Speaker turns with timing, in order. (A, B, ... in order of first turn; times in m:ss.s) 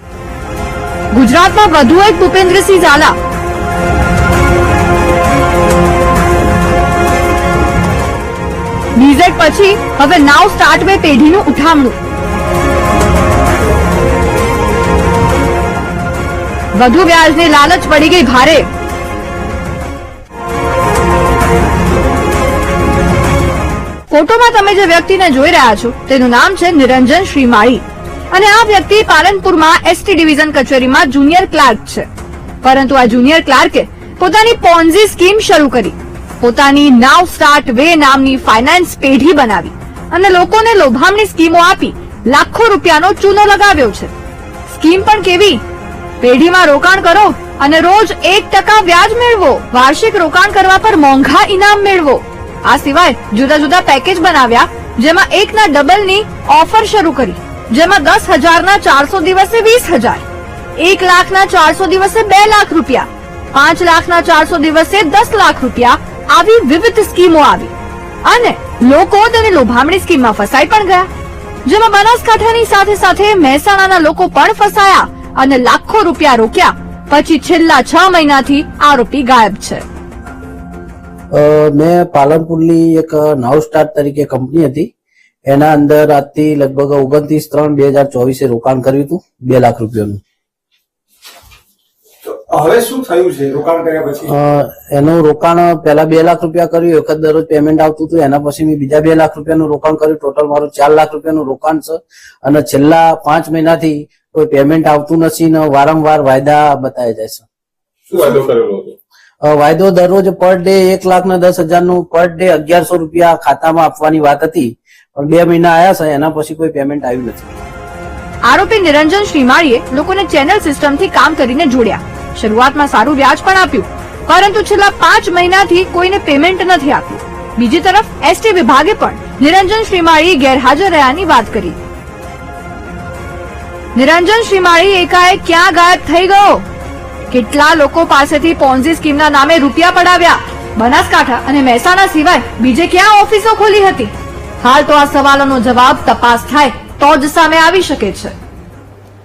0:01.1-0:03.2 A
0:09.0-0:12.0 A
0:16.7-0:18.7 A
0:24.1-0:32.1 A
0:32.6-0:44.1 A
0:44.7-0:45.6 A
0:46.2-1:00.2 A
1:00.8-1:07.7 A
1:08.2-1:11.1 A
1:11.6-1:19.8 A
1:21.3-1:24.9 B
1:25.5-1:30.2 B
1:32.2-1:34.3 C
1:34.3-1:47.5 B
1:48.1-1:48.9 C
1:49.4-1:57.5 B
1:58.4-2:11.8 A
2:14.0-2:16.6 A
2:17.3-2:28.3 A